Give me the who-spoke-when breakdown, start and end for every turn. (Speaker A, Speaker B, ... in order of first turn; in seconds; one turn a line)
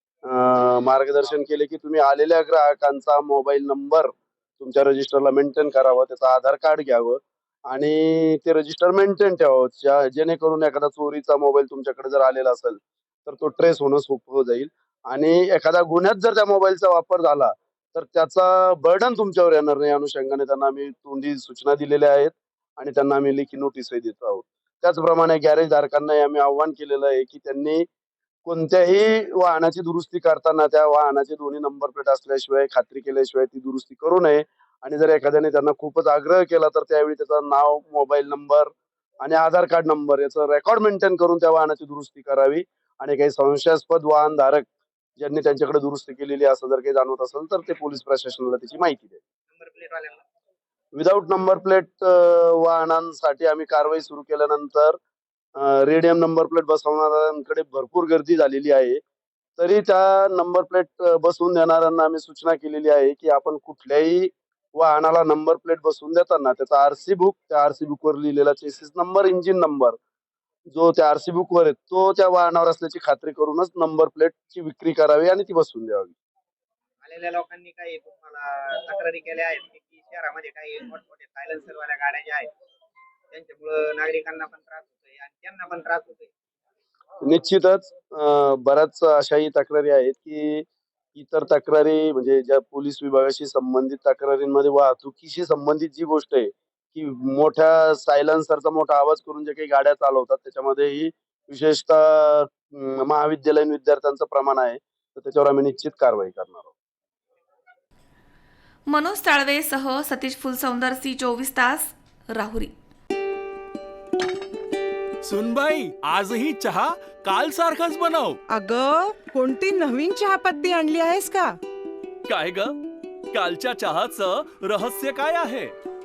Speaker A: 0.2-27.8
Speaker A: 28.4-49.2
Speaker B: 49.5-50.2
Speaker A: 50.9-55.0
Speaker A: 55.5-59.0
Speaker A: 59.6-70.0
Speaker A: 70.7-76.1
Speaker B: 77.0-82.5
Speaker B: 83.3-86.3
Speaker A: 87.2-106.7
Speaker C: 108.9-112.7
Speaker D: 115.2-118.4
Speaker E: 118.5-121.6
Speaker D: 122.3-122.8
Speaker D: 123.3-125.7